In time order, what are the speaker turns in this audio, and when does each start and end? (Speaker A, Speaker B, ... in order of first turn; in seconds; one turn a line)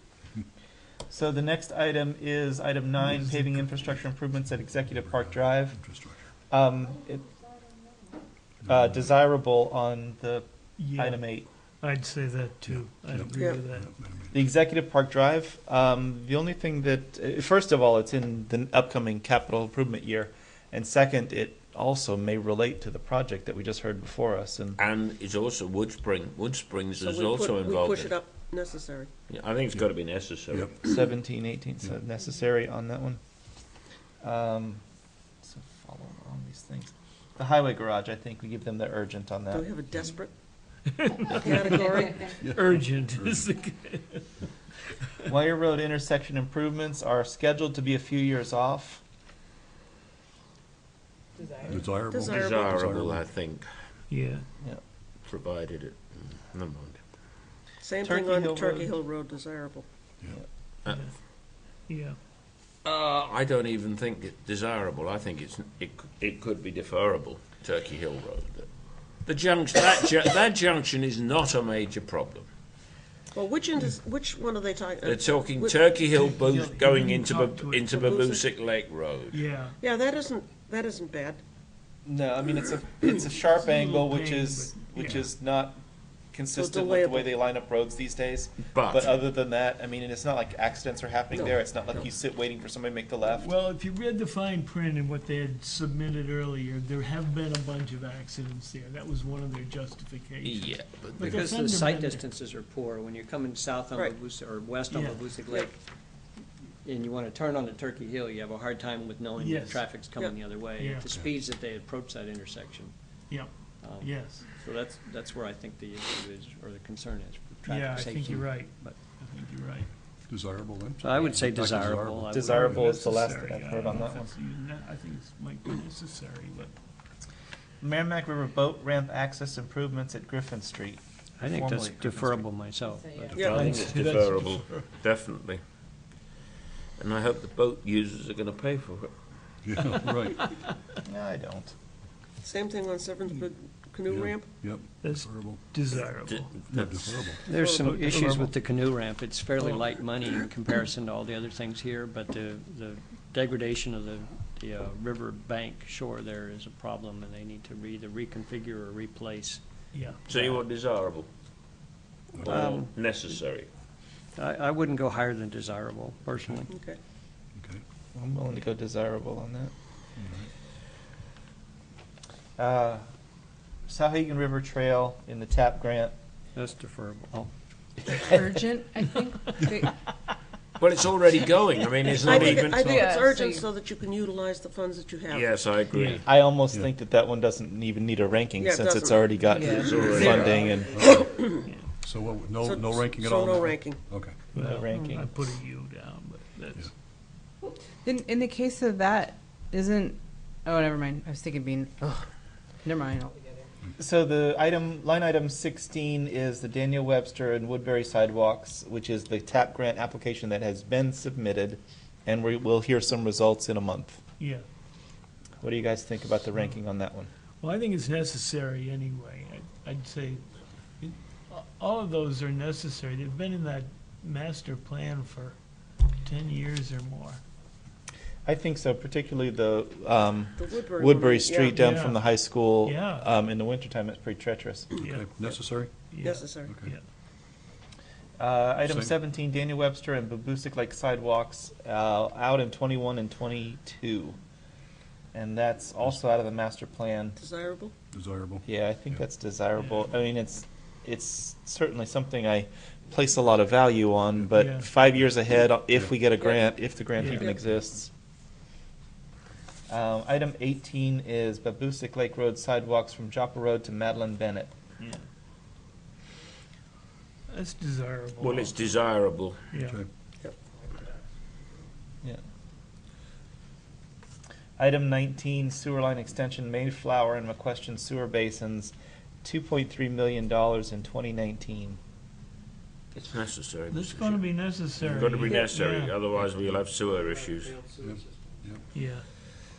Speaker A: 1.1-5.8
Speaker B: 4.9-6.2
Speaker A: 6.5-7.2
Speaker B: 8.6-9.0
Speaker A: 8.6-11.5
Speaker C: 10.8-11.2
Speaker C: 11.8-13.9
Speaker B: 12.7-14.3
Speaker D: 13.3-13.6
Speaker A: 14.3-24.8
Speaker E: 24.8-28.2
Speaker D: 27.0-29.1
Speaker E: 29.3-30.7
Speaker B: 30.5-30.9
Speaker A: 30.8-33.2
Speaker A: 34.2-34.8
Speaker A: 35.4-39.7
Speaker D: 39.5-40.3
Speaker C: 40.9-41.9
Speaker D: 41.3-42.4
Speaker F: 42.0-42.3
Speaker B: 42.4-43.5
Speaker C: 42.4-44.3
Speaker A: 45.2-49.0
Speaker F: 51.5-51.7
Speaker B: 51.6-53.2
Speaker D: 52.1-52.8
Speaker E: 52.4-53.7
Speaker C: 54.1-54.5
Speaker E: 55.2-57.0
Speaker D: 57.8-59.9
Speaker A: 58.0-58.9
Speaker C: 60.9-61.1
Speaker C: 61.9-62.2
Speaker E: 62.8-68.7
Speaker E: 69.2-72.5
Speaker D: 73.3-76.0
Speaker E: 75.0-79.4
Speaker C: 76.1-77.9
Speaker D: 77.9-78.4
Speaker C: 79.3-79.8
Speaker D: 79.8-81.4
Speaker A: 82.0-85.8
Speaker C: 83.5-85.2
Speaker A: 86.3-93.5
Speaker D: 86.5-87.3
Speaker E: 88.7-89.1
Speaker D: 91.3-92.0
Speaker C: 93.3-102.2
Speaker E: 100.4-101.4
Speaker G: 101.2-105.8
Speaker C: 104.9-105.2
Speaker G: 106.8-112.9
Speaker C: 109.4-109.9
Speaker C: 110.8-111.1
Speaker C: 113.3-114.5
Speaker G: 113.8-119.0
Speaker C: 117.7-119.9
Speaker B: 120.3-122.8
Speaker G: 121.0-123.0
Speaker A: 122.3-124.3
Speaker C: 122.5-126.7
Speaker A: 127.8-132.4
Speaker G: 131.4-133.6
Speaker F: 133.1-133.4
Speaker D: 133.3-133.8
Speaker E: 133.4-135.6
Speaker C: 133.4-134.8
Speaker E: 137.0-139.1
Speaker B: 139.6-140.4
Speaker C: 140.4-140.7
Speaker A: 141.0-141.7
Speaker D: 142.4-144.5
Speaker B: 144.1-145.6
Speaker C: 145.0-146.5
Speaker E: 146.2-147.4
Speaker B: 146.7-147.4
Speaker G: 147.4-159.6
Speaker D: 147.5-148.0
Speaker C: 147.8-148.5
Speaker C: 159.9-160.2
Speaker E: 160.3-161.3
Speaker B: 162.4-162.7
Speaker E: 162.4-163.7
Speaker G: 162.4-162.9
Speaker G: 164.4-166.7
Speaker D: 166.7-167.0
Speaker B: 167.6-167.8
Speaker A: 168.1-169.7
Speaker B: 170.2-170.5
Speaker A: 172.6-173.0
Speaker A: 173.9-176.1
Speaker G: 176.5-177.5
Speaker F: 178.2-179.9
Speaker E: 180.8-183.0
Speaker D: 182.1-185.6
Speaker F: 182.1-183.7
Speaker E: 185.3-186.2
Speaker C: 185.9-186.2
Speaker A: 186.2-191.0
Speaker D: 188.6-191.6
Speaker F: 189.4-190.8
Speaker E: 189.7-190.7
Speaker B: 190.9-191.2
Speaker C: 191.6-191.9
Speaker B: 192.0-194.4
Speaker D: 192.6-194.0
Speaker C: 194.5-196.9
Speaker A: 194.5-195.3
Speaker G: 194.9-195.3
Speaker F: 198.0-202.3
Speaker F: 202.8-203.6
Speaker A: 204.0-214.2
Speaker C: 214.4-214.6
Speaker A: 215.6-217.3
Speaker C: 217.6-220.4
Speaker C: 221.0-225.6
Speaker C: 226.2-227.4
Speaker A: 228.4-235.0
Speaker D: 230.6-231.8
Speaker C: 231.8-232.2
Speaker C: 232.8-233.3
Speaker B: 234.9-235.9
Speaker C: 235.0-235.3
Speaker C: 236.1-237.0
Speaker D: 236.2-236.8
Speaker B: 236.6-236.9
Speaker A: 238.4-244.4
Speaker B: 238.8-239.1
Speaker A: 245.3-247.4
Speaker D: 247.4-247.9
Speaker B: 248.1-249.2
Speaker A: 248.7-258.1
Speaker C: 249.8-250.1
Speaker C: 254.5-254.9
Speaker D: 256.4-256.6
Speaker C: 257.2-257.5
Speaker D: 257.2-257.6
Speaker A: 259.9-264.7
Speaker C: 267.5-268.8
Speaker E: 268.4-269.6
Speaker C: 269.7-270.0
Speaker B: 269.7-270.1
Speaker A: 274.8-282.0
Speaker E: 283.1-287.8
Speaker C: 283.9-286.2
Speaker G: 287.1-288.7
Speaker B: 288.0-288.8
Speaker C: 288.9-289.2